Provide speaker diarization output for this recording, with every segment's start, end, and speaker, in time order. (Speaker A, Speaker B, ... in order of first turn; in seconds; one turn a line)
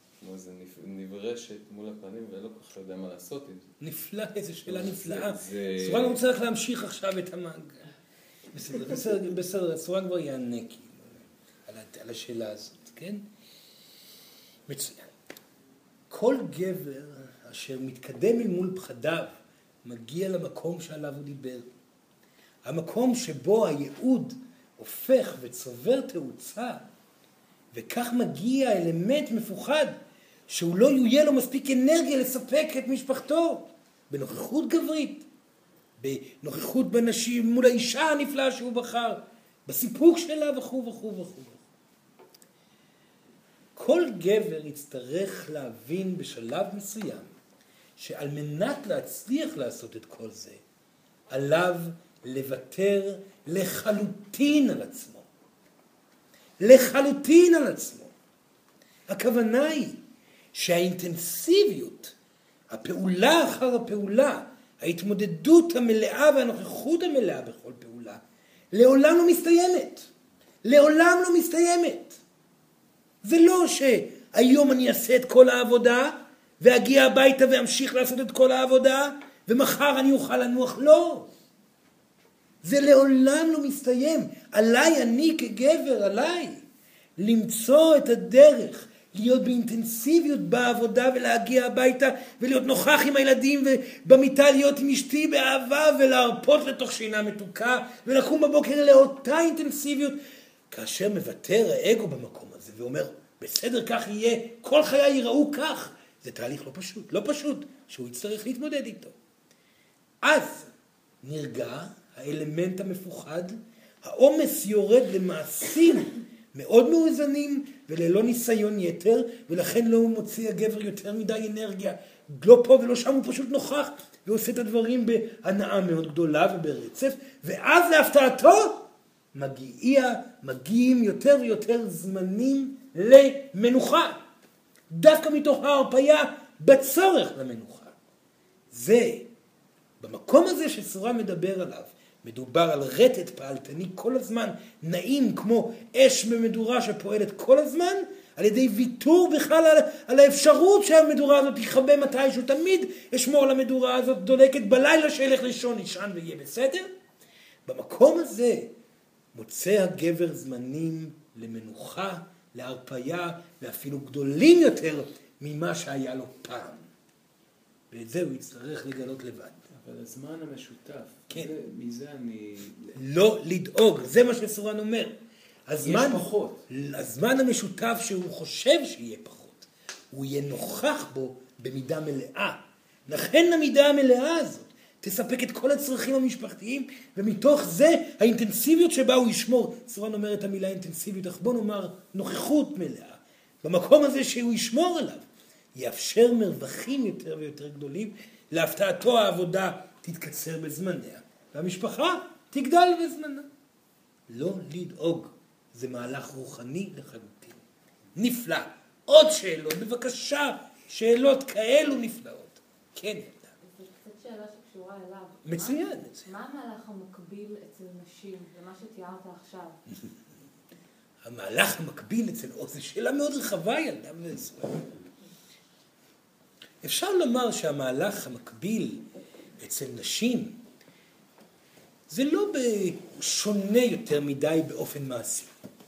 Speaker A: 0.2-3.7
Speaker B: 3.8-7.8
Speaker A: 4.7-6.2
Speaker B: 8.5-13.2
Speaker B: 14.7-15.1
Speaker B: 16.1-19.3
Speaker B: 19.8-21.7
Speaker B: 22.6-26.9
Speaker B: 27.7-29.9
Speaker B: 30.5-35.2
Speaker B: 36.0-41.6
Speaker B: 43.8-47.3
Speaker B: 48.0-50.6
Speaker B: 51.3-55.3
Speaker B: 56.6-58.1
Speaker B: 59.1-60.0
Speaker B: 60.5-62.1
Speaker B: 62.7-68.2
Speaker B: 68.7-70.1
Speaker B: 70.6-72.2
Speaker B: 73.2-81.3
Speaker B: 82.6-86.6
Speaker B: 87.2-100.2
Speaker B: 100.7-109.1
Speaker B: 110.2-110.7
Speaker B: 111.2-134.2
Speaker B: 134.9-137.9
Speaker B: 138.7-139.3
Speaker B: 140.0-156.9
Speaker B: 157.7-158.7
Speaker B: 159.3-166.8
Speaker B: 167.9-169.6
Speaker A: 169.7-173.0
Speaker B: 172.9-175.2
Speaker B: 175.7-195.2
Speaker A: 175.8-176.6
Speaker B: 195.8-203.5
Speaker B: 204.3-207.6
Speaker B: 208.1-213.5
Speaker C: 213.8-215.8
Speaker B: 215.4-216.3
Speaker C: 216.3-219.7
Speaker B: 221.2-224.9
Speaker B: 226.8-229.1
Speaker B: 229.6-230.6
Speaker B: 232.1-235.5